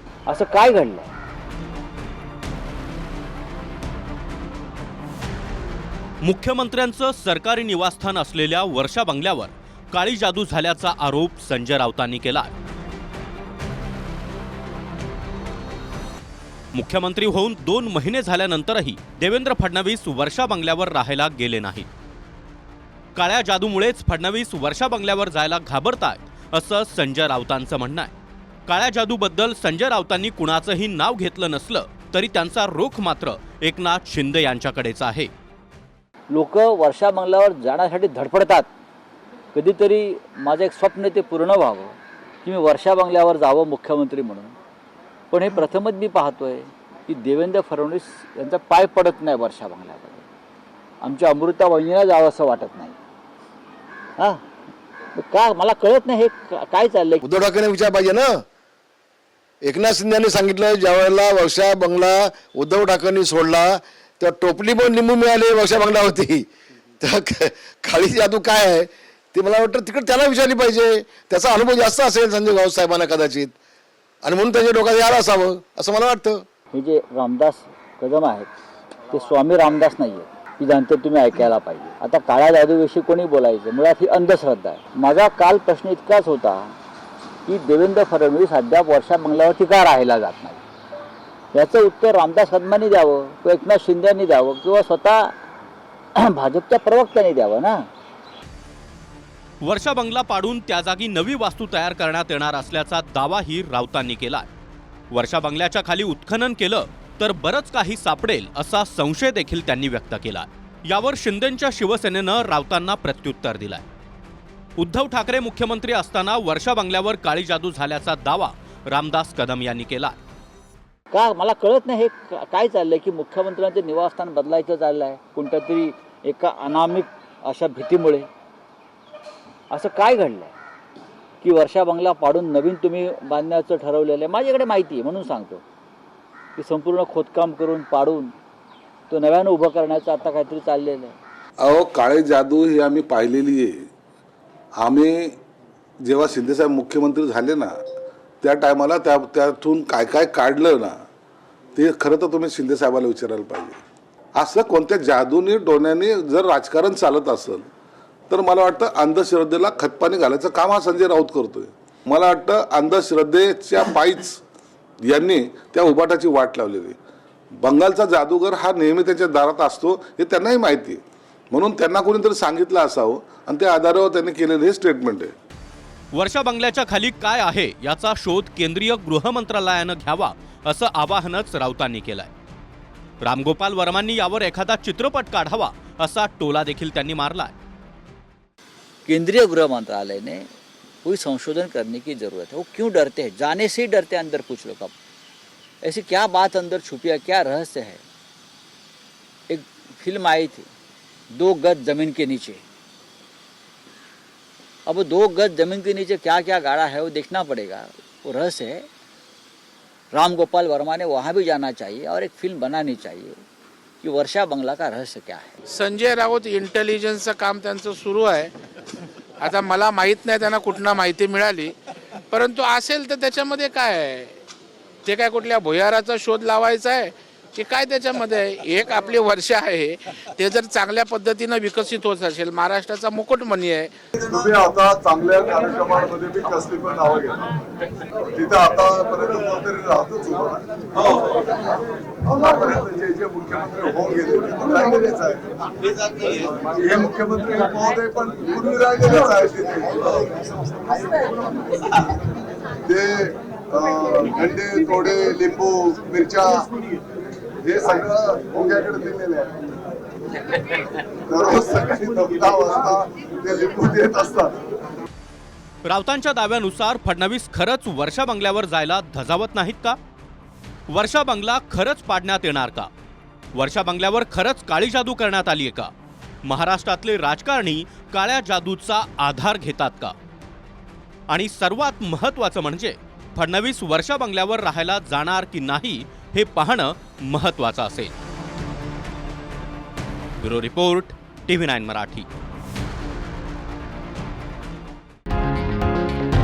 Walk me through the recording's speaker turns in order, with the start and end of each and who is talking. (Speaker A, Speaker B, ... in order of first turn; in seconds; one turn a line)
Speaker A: 0.3-1.1
Speaker B: 6.2-12.5
Speaker B: 16.7-21.9
Speaker B: 23.1-28.1
Speaker B: 28.7-35.3
Speaker A: 36.3-38.7
Speaker A: 39.5-44.5
Speaker A: 45.3-50.2
Speaker A: 51.0-53.0
Speaker A: 55.2-57.2
Speaker C: 57.2-58.4
Speaker C: 59.6-66.4
Speaker C: 67.0-73.5
Speaker C: 74.2-76.4
Speaker A: 76.7-78.5
Speaker A: 79.1-86.7
Speaker A: 87.5-90.6
Speaker A: 91.5-95.3
Speaker A: 96.2-97.8
Speaker B: 99.6-104.5
Speaker B: 105.1-113.8
Speaker B: 114.8-120.2
Speaker A: 121.1-128.3
Speaker A: 129.7-130.5
Speaker A: 131.4-135.6
Speaker A: 136.6-138.3
Speaker A: 139.1-141.1
Speaker D: 141.6-143.8
Speaker D: 144.8-145.3
Speaker D: 146.0-147.7
Speaker D: 148.4-150.9
Speaker D: 151.8-153.8
Speaker D: 154.4-157.6
Speaker D: 158.3-164.3
Speaker C: 159.6-160.1
Speaker D: 165.1-166.9
Speaker D: 167.7-171.0
Speaker D: 171.6-175.2
Speaker B: 176.2-182.3
Speaker B: 183.2-187.5
Speaker A: 189.1-190.4
Speaker A: 191.0-194.9
Speaker A: 195.8-198.0
Speaker A: 199.5-200.7
Speaker A: 201.3-202.6
Speaker A: 204.8-208.9
Speaker A: 210.1-213.4
Speaker A: 214.0-215.5
Speaker E: 215.7-218.5
Speaker E: 219.4-221.7
Speaker E: 222.3-224.3
Speaker E: 225.0-233.9
Speaker F: 234.3-237.4
Speaker F: 238.3-241.4
Speaker F: 242.2-245.5
Speaker F: 246.2-250.2
Speaker F: 252.8-256.7
Speaker F: 257.6-259.5
Speaker F: 261.2-264.6
Speaker B: 265.8-269.9
Speaker B: 270.9-272.9
Speaker B: 273.6-275.9
Speaker B: 276.4-280.1
Speaker B: 281.3-288.1
Speaker B: 290.4-292.2